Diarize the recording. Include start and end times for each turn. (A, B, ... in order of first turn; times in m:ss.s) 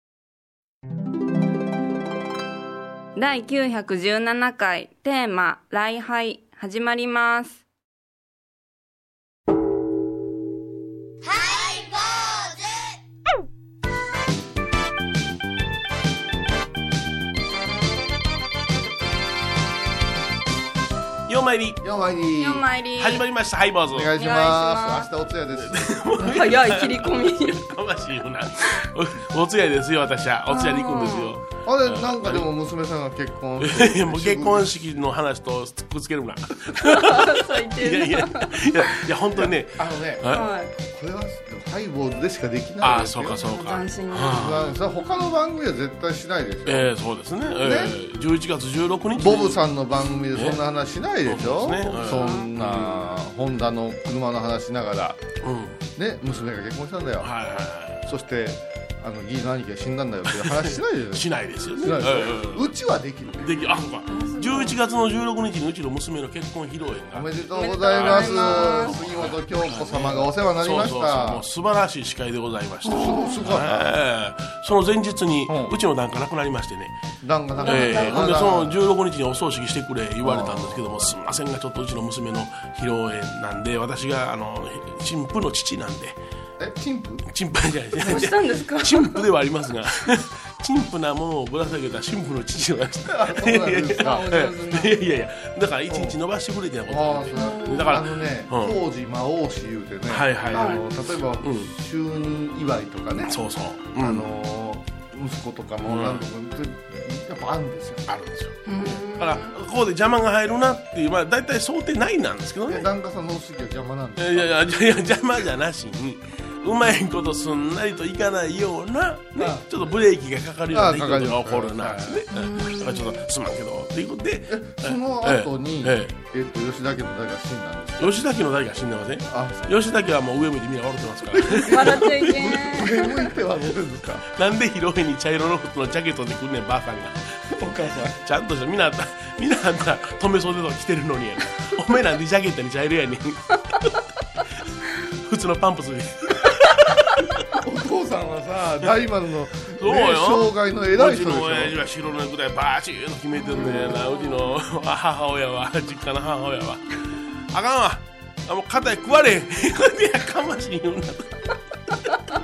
0:03.2-0:07.6 A
0:21.3-0:21.8 B
0:21.8-0:22.7 C
0:22.4-0:23.2 A
0:23.0-0:24.2 B
0:23.9-0:26.0 C
0:24.2-0:25.1 A
0:25.6-0:32.5 B
0:26.2-0:27.6 A
0:30.5-0:31.3 A
0:31.6-0:34.8 C
0:33.6-0:40.4 B
0:36.8-0:38.7 A
0:39.4-0:43.4 C
0:40.3-0:40.7 A
0:42.8-0:44.7 B
0:43.4-0:44.5 A
0:44.3-0:46.9 C
0:46.7-0:49.7 B
0:47.6-0:48.0 C
0:49.2-0:55.2 C
0:50.3-0:50.6 B
0:51.3-0:53.1 B
0:52.0-0:52.5 A
0:55.4-0:55.8 B
0:56.0-0:57.3 C
0:57.2-0:58.0 B
0:58.0-1:01.3 C
1:00.3-1:02.7 B
1:01.8-1:03.6 C
1:03.4-1:17.0 B
1:04.1-1:04.8 A
1:07.1-1:11.4 C
1:07.6-1:08.9 A
1:12.9-1:13.9 C
1:12.9-1:13.3 A
1:15.5-1:15.8 C
1:17.2-1:18.8 C
1:17.6-1:18.4 A
1:17.6-1:26.2 B
1:20.2-1:20.9 C
1:26.6-1:27.3 C
1:27.3-1:38.8 B
1:28.0-1:29.2 A
1:28.0-1:28.3 C
1:33.1-1:34.5 C
1:34.0-1:34.9 A
1:35.9-1:36.2 C
1:36.9-1:43.4 C
1:37.3-1:38.0 A
1:40.1-1:40.8 B
1:40.5-1:40.8 A
1:41.4-1:41.7 B
1:43.2-1:44.3 B
1:44.0-1:48.2 C
1:45.8-1:46.2 B
1:48.1-1:52.9 B
1:48.7-1:49.5 A
1:52.7-1:54.7 C
1:54.2-2:06.1 B
1:59.4-1:59.7 C
2:00.7-2:02.2 C
2:02.3-2:03.2 A
2:04.5-2:08.1 C
2:08.0-2:13.0 B
2:09.3-2:09.8 C
2:11.3-2:14.3 C
2:11.7-2:13.2 A
2:14.3-2:24.0 B
2:17.5-2:18.2 C
2:25.0-2:27.3 B
2:27.5-2:31.8 C
2:29.8-2:41.4 B
2:33.5-2:34.3 A